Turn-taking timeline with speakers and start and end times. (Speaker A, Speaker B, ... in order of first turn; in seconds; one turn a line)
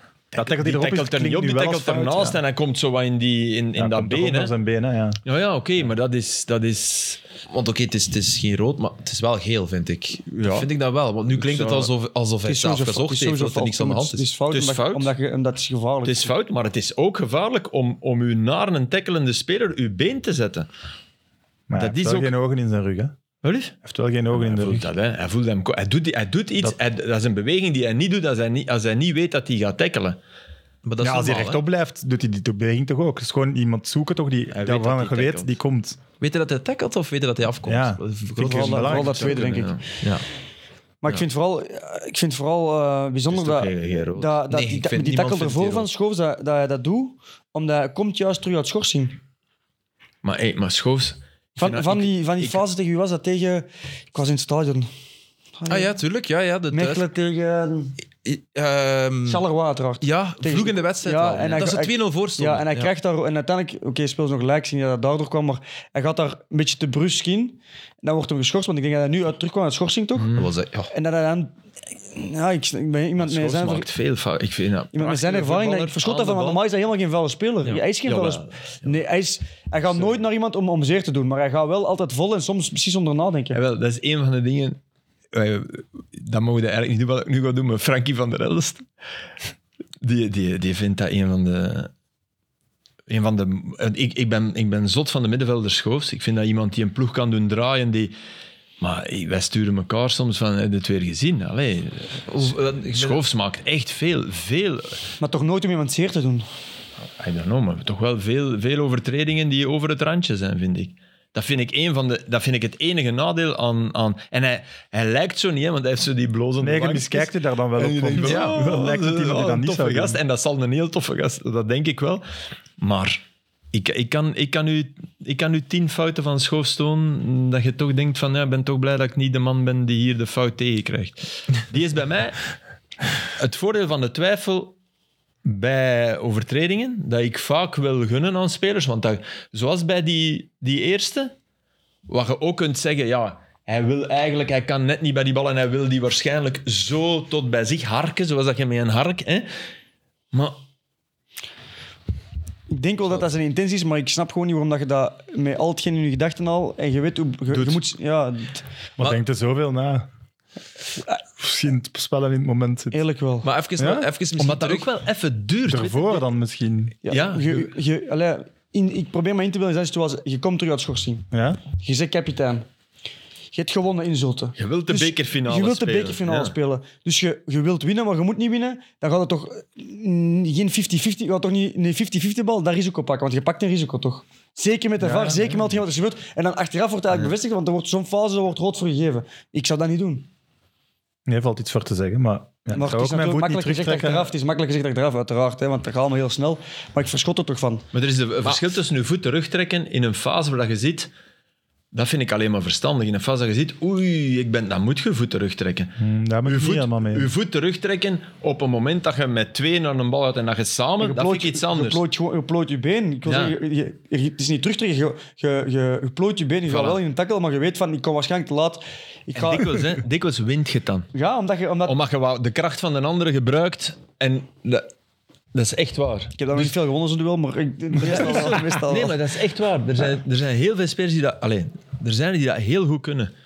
Speaker A: 0.3-4.5
Speaker B: 0.3-2.4
Speaker B: 3.8-5.2
Speaker A: 5.2-7.2
Speaker C: 7.5-14.2
Speaker A: 10.3-10.7
Speaker A: 11.3-11.9
Speaker D: 12.4-16.3
Speaker A: 14.5-15.1
Speaker A: 16.0-20.7
Speaker B: 21.7-23.1
Speaker A: 21.8-22.3
Speaker A: 23.4-23.7
Speaker B: 23.8-24.9
Speaker A: 24.3-30.2
Speaker C: 30.8-31.6
Speaker B: 31.0-36.0
Speaker A: 34.6-35.5
Speaker C: 36.2-39.0
Speaker B: 37.6-39.4
Speaker D: 38.4-39.8
Speaker A: 38.8-39.8
Speaker D: 41.0-49.2
Speaker A: 43.3-44.4
Speaker C: 44.5-45.9
Speaker A: 50.2-52.6
Speaker D: 51.6-54.9
Speaker D: 55.6-55.9
Speaker C: 55.7-57.0
Speaker D: 56.7-57.9
Speaker C: 58.2-59.4
Speaker D: 59.2-70.3
Speaker C: 60.0-62.9
Speaker A: 70.2-70.5
Speaker C: 70.3-70.9
Speaker D: 70.9-71.5
Speaker D: 72.1-73.9
Speaker A: 73.2-76.6
Speaker D: 74.9-83.6
Speaker A: 78.0-78.9
Speaker A: 83.5-84.8
Speaker A: 85.3-88.8
Speaker A: 90.0-91.9
Speaker A: 93.1-98.1
Speaker A: 98.8-105.0
Speaker C: 102.3-103.2
Speaker D: 105.2-106.5
Speaker A: 107.2-122.2
Speaker B: 116.6-120.2
Speaker C: 118.2-118.7
Speaker A: 122.8-132.4
Speaker A: 133.4-134.7
Speaker A: 135.4-141.3
Speaker A: 142.1-149.5
Speaker A: 150.3-150.6
Speaker D: 152.7-158.6
Speaker A: 157.5-157.8
Speaker B: 159.0-160.1
Speaker B: 161.4-163.0
Speaker D: 162.9-163.5
Speaker C: 163.4-164.9
Speaker B: 163.8-164.1
Speaker A: 164.4-166.3
Speaker B: 165.7-166.9
Speaker D: 167.0-172.7
Speaker A: 167.1-167.7
Speaker B: 171.3-171.6
Speaker D: 173.5-190.3
Speaker A: 174.6-176.5
Speaker B: 185.0-185.6
Speaker B: 191.3-194.3
Speaker D: 192.7-197.8
Speaker A: 197.9-201.1
Speaker A: 201.9-212.0
Speaker B: 206.0-207.3
Speaker D: 211.0-219.8
Speaker A: 213.2-213.6
Speaker A: 216.7-217.0
Speaker A: 219.3-221.1
Speaker D: 221.1-221.9
Speaker A: 221.8-224.9
Speaker A: 225.5-226.7
Speaker D: 226.4-229.2
Speaker A: 228.0-233.3